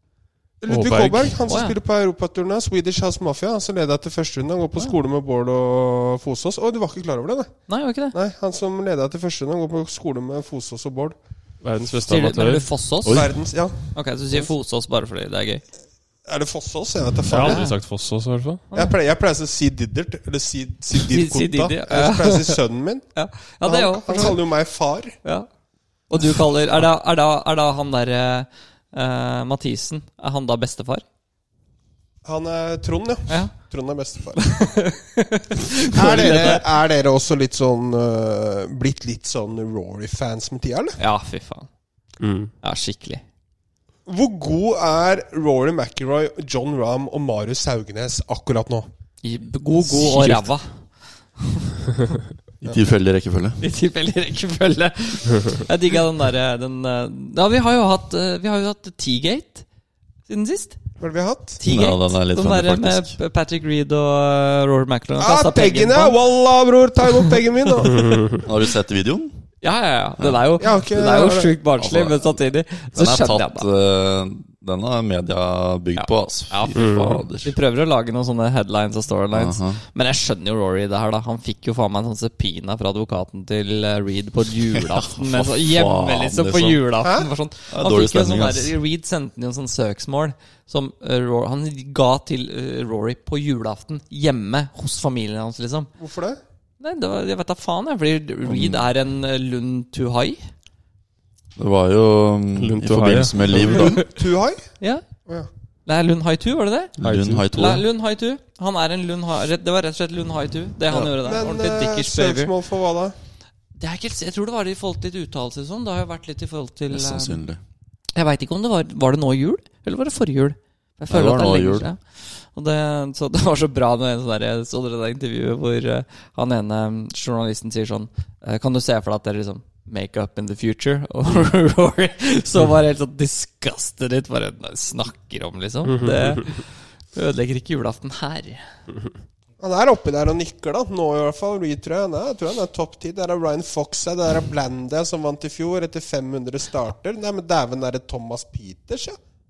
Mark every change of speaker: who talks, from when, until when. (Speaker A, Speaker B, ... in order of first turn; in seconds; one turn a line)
Speaker A: 0.6-11.2
Speaker B: 0.7-1.5
Speaker C: 1.5-1.8
Speaker C: 7.7-8.2
Speaker B: 11.6-12.7
Speaker C: 12.1-13.3
Speaker D: 13.1-13.3
Speaker A: 13.1-14.5
Speaker C: 13.9-15.6
Speaker A: 16.3-17.6
Speaker B: 17.3-18.6
Speaker C: 17.4-17.8
Speaker A: 18.7-23.1
Speaker C: 20.9-22.6
Speaker C: 23.1-24.5
Speaker A: 23.6-25.2
Speaker C: 26.1-31.0
Speaker A: 32.2-34.7
Speaker C: 33.3-33.6
Speaker C: 34.4-36.7
Speaker A: 35.8-41.0
Speaker C: 41.0-41.7
Speaker B: 42.2-42.5
Speaker C: 42.6-43.2
Speaker A: 44.1-48.9
Speaker C: 49.2-50.8
Speaker B: 49.9-50.4
Speaker C: 51.4-51.7
Speaker D: 52.6-53.6
Speaker C: 53.6-59.6
Speaker C: 60.3-60.8
Speaker A: 61.0-61.6
Speaker C: 61.6-66.2
Speaker D: 61.6-63.1
Speaker A: 65.2-68.3
Speaker B: 68.0-68.4
Speaker D: 68.4-69.4
Speaker C: 69.6-73.7
Speaker A: 70.6-71.5
Speaker D: 71.8-72.4
Speaker D: 73.0-77.5
Speaker C: 76.0-76.9
Speaker B: 76.7-77.2
Speaker C: 77.4-95.9
Speaker D: 79.3-79.8
Speaker D: 84.7-86.9
Speaker A: 87.0-87.3
Speaker D: 87.7-88.8
Speaker A: 96.0-96.4
Speaker C: 96.8-100.5
Speaker D: 98.4-98.9
Speaker D: 101.6-104.1
Speaker B: 102.6-103.9
Speaker A: 103.7-104.7
Speaker C: 103.7-104.0
Speaker C: 105.9-106.9
Speaker D: 107.0-107.8
Speaker B: 107.0-107.5
Speaker C: 107.5-112.5
Speaker D: 110.9-111.2
Speaker A: 111.2-113.2
Speaker C: 113.8-117.4
Speaker D: 116.9-117.6
Speaker C: 118.2-138.7
Speaker D: 121.1-121.9
Speaker B: 135.8-136.5
Speaker A: 139.6-149.2